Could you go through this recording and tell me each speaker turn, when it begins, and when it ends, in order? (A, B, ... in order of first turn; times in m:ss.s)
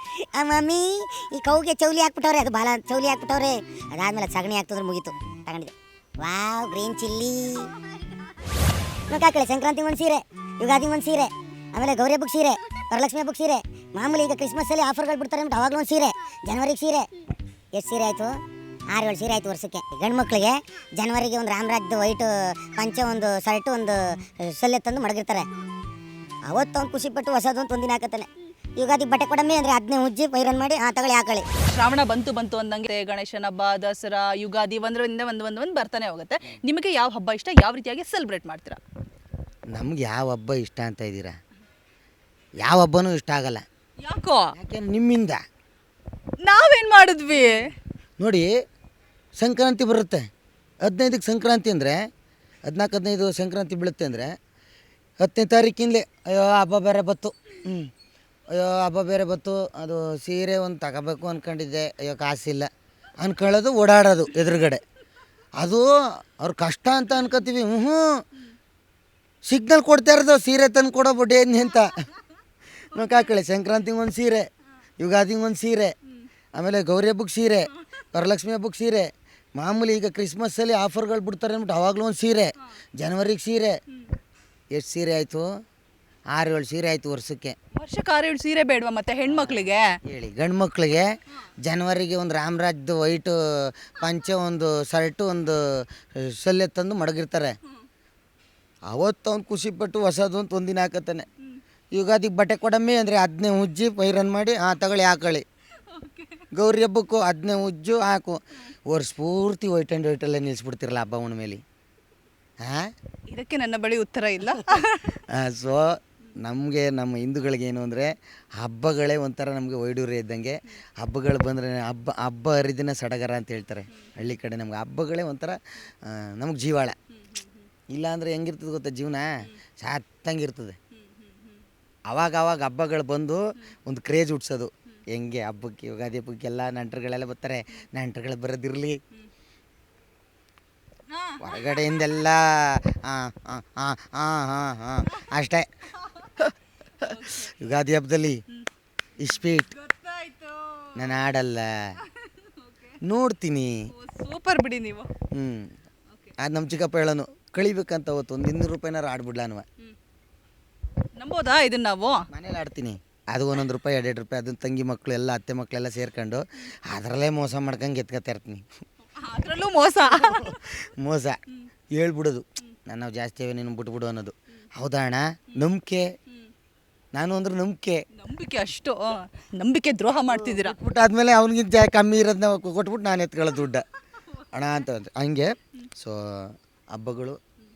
0:00.3-0:07.7 A
0:09.1-0:17.1 A
0:17.8-0:18.3 A
0:18.9-0:25.5 A
0:26.5-0:31.4 A
0:31.7-0:38.8 B
0:39.7-0:41.3 C
0:42.6-0:43.6 C
0:44.0-0:44.5 B
0:44.5-0:45.4 C
0:46.4-0:47.7 B
0:48.2-0:48.5 C
0:49.4-0:50.2 C
0:50.8-0:52.0 C
0:52.7-0:54.3 C
0:55.2-0:57.9 C
0:58.5-1:02.7 C
1:03.2-1:04.8 C
1:05.6-1:08.2 C
1:09.5-1:12.0 C
1:12.9-1:14.4 C
1:12.9-1:13.3 B
1:15.0-1:15.9 C
1:16.6-1:23.7 C
1:24.7-1:25.5 C
1:26.3-1:27.6 C
1:27.8-1:29.9 B
1:29.3-1:31.1 C
1:31.6-1:37.5 C
1:38.9-1:41.3 C
1:41.9-1:45.4 C
1:45.9-1:46.5 B
1:46.5-1:51.6 C
1:52.6-1:52.9 C
1:53.3-1:55.2 B
1:55.3-2:07.0 C
2:07.2-2:07.6 B
2:07.9-2:10.8 C
2:10.9-2:11.6 B
2:12.1-2:19.0 C
2:21.1-2:22.1 B
2:21.4-2:25.7 C
2:26.0-2:26.3 B
2:27.0-2:27.6 B
2:27.0-2:28.4 C
2:29.2-2:29.7 C
2:29.4-2:31.2 B
2:30.9-2:31.9 C
2:32.0-2:33.0 B
2:33.0-2:33.7 C
2:33.9-2:35.1 B
2:35.3-2:35.7 C
2:36.4-2:39.6 C
2:41.2-2:42.2 B
2:42.3-2:48.6 C
2:49.1-2:50.6 B
2:50.2-2:51.4 C
2:51.9-2:56.0 C
2:57.1-2:58.0 C
2:58.1-3:00.8 B
3:00.3-3:03.8 C
3:04.5-3:07.4 C